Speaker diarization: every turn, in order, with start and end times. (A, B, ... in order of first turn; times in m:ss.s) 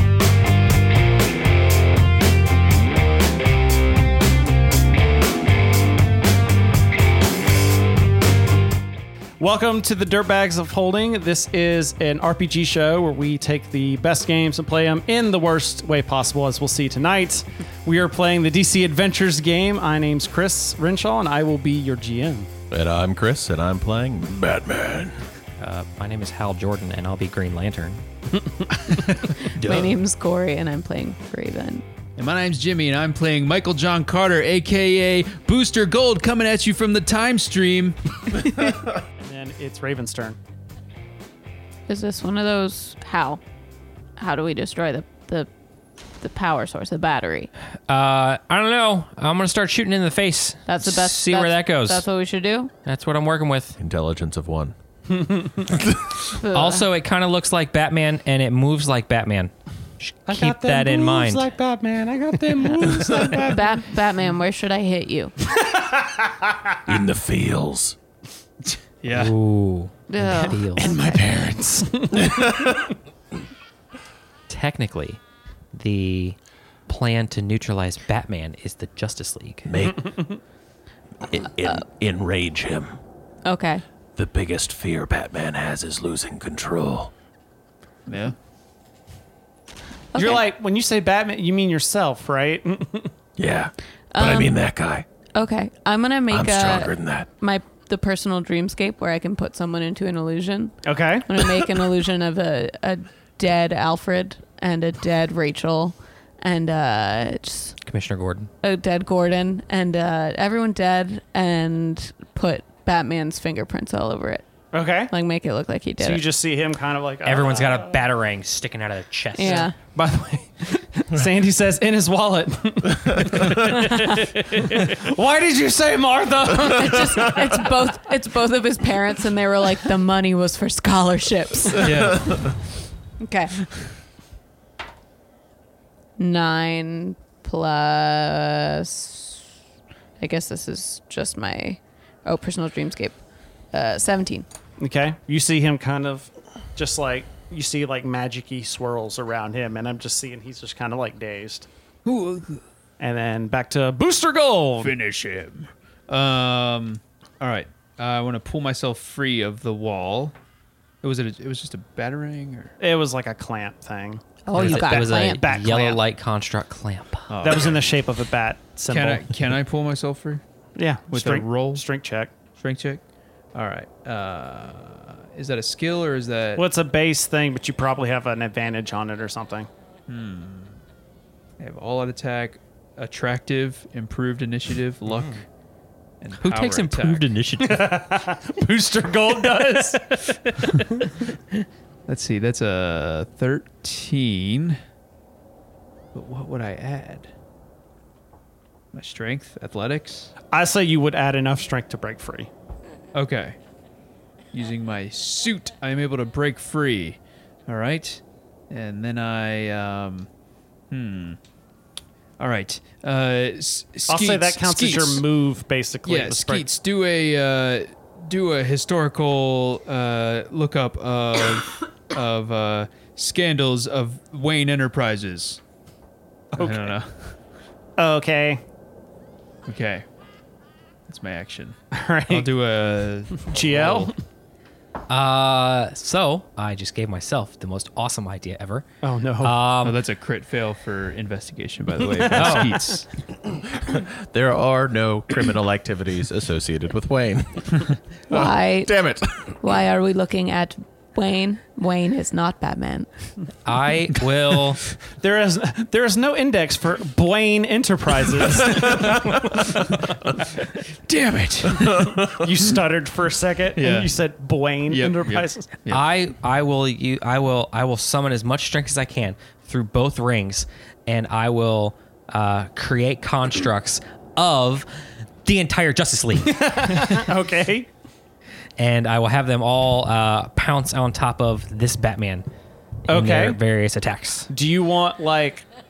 0:09.4-0:22.5 A
0:22.7-0:25.2 B
0:25.6-0:28.0 C
0:29.6-0:31.8 D
0:29.6-0:29.9 E
0:32.2-0:38.5 E
0:39.2-0:40.4 A
0:41.9-0:43.4 D
0:44.2-0:45.5 D
0:46.2-0:47.5 D
0:47.9-0:52.0 C
0:50.6-0:52.7 D
0:52.8-0:53.8 C
0:53.8-0:54.7 B
0:55.1-0:55.7 A
0:55.7-0:56.2 B
0:56.4-0:56.8 D
0:56.5-1:01.4 C
1:00.3-1:03.8 A
1:02.6-1:03.4 B
1:03.4-1:05.3 D
1:05.5-1:07.0 A
1:06.9-1:08.0 B
1:09.0-1:09.4 E
1:09.1-1:11.0 C
1:10.1-1:11.2 D
1:10.8-1:12.8 A
1:12.2-1:12.8 B
1:14.5-1:15.2 C
1:15.7-1:16.4 C
1:16.9-1:19.7 C
1:19.6-1:20.1 B
1:19.8-1:20.4 A
1:21.3-1:23.0 B
1:23.4-1:23.8 D
1:24.2-1:27.1 B
1:28.1-1:28.3 E
1:30.1-1:30.4 D
1:30.1-1:33.1 A
1:33.4-1:35.0 B
1:34.1-1:34.6 D
1:35.3-1:47.8 D
1:36.3-1:37.3 B
1:40.8-1:41.4 A
1:47.8-1:48.5 C
1:48.6-1:54.4 D
1:54.7-1:55.1 A
1:55.1-1:56.2 D
1:56.0-1:58.0 A
1:57.2-1:59.7 C
1:59.4-1:59.7 D
1:59.4-2:07.6 A
2:02.9-2:03.8 B
2:03.9-2:04.2 D
2:06.6-2:12.3 D
2:11.8-2:12.5 E
2:13.2-2:13.6 D
2:16.2-2:19.4 D
2:20.2-2:23.2 D
2:23.7-2:24.4 D
2:24.8-2:31.7 A
2:32.0-2:32.6 E
2:33.0-2:34.9 A
2:34.8-2:40.3 E
2:41.0-2:42.7 E
2:42.8-2:46.0 A
2:44.4-2:45.4 D
2:44.5-2:47.3 C
2:47.3-2:47.8 E
2:47.4-2:49.3 A
2:48.9-2:50.4 E
2:50.8-2:52.3 A
2:51.1-2:51.8 E
2:52.6-2:53.0 E
2:53.5-2:56.6 E
2:56.5-2:59.7 A
3:00.1-3:00.8 E
3:01.6-3:05.4 E
3:05.1-3:05.4 C
3:06.2-3:07.3 E
3:06.4-3:08.0 C
3:07.6-3:10.3 A
3:12.1-3:14.8 E
3:16.1-3:17.3 E
3:18.9-3:20.3 E
3:20.5-3:22.5 A
3:23.1-3:23.5 E
3:24.5-3:30.3 E
3:30.9-3:31.4 E
3:32.4-3:35.2 E
3:34.1-3:36.7 A
3:36.0-3:45.6 E
3:46.5-3:47.0 A
3:46.5-3:47.3 E
3:48.0-3:48.6 A
3:49.6-3:50.0 E
3:51.1-3:51.8 E
3:51.9-3:52.5 A
3:52.3-3:54.1 E
3:53.4-3:54.1 A
3:55.1-3:58.8 C
3:59.0-3:59.6 A
3:59.4-4:00.0 C
3:59.8-4:03.0 E
4:02.3-4:02.9 C
4:03.5-4:09.5 B
4:08.3-4:08.9 D
4:09.6-4:13.1 D
4:13.6-4:14.8 C
4:15.1-4:19.9 A
4:21.1-4:22.3 E
4:21.8-4:22.2 B
4:22.3-4:25.7 A
4:23.8-4:24.1 E
4:24.9-4:26.0 E
4:25.9-4:34.9 C
4:35.4-4:36.6 C
4:36.4-4:37.9 A
4:38.8-4:42.4 C
4:43.1-4:43.6 A
4:43.1-4:44.5 C
4:44.5-4:45.6 A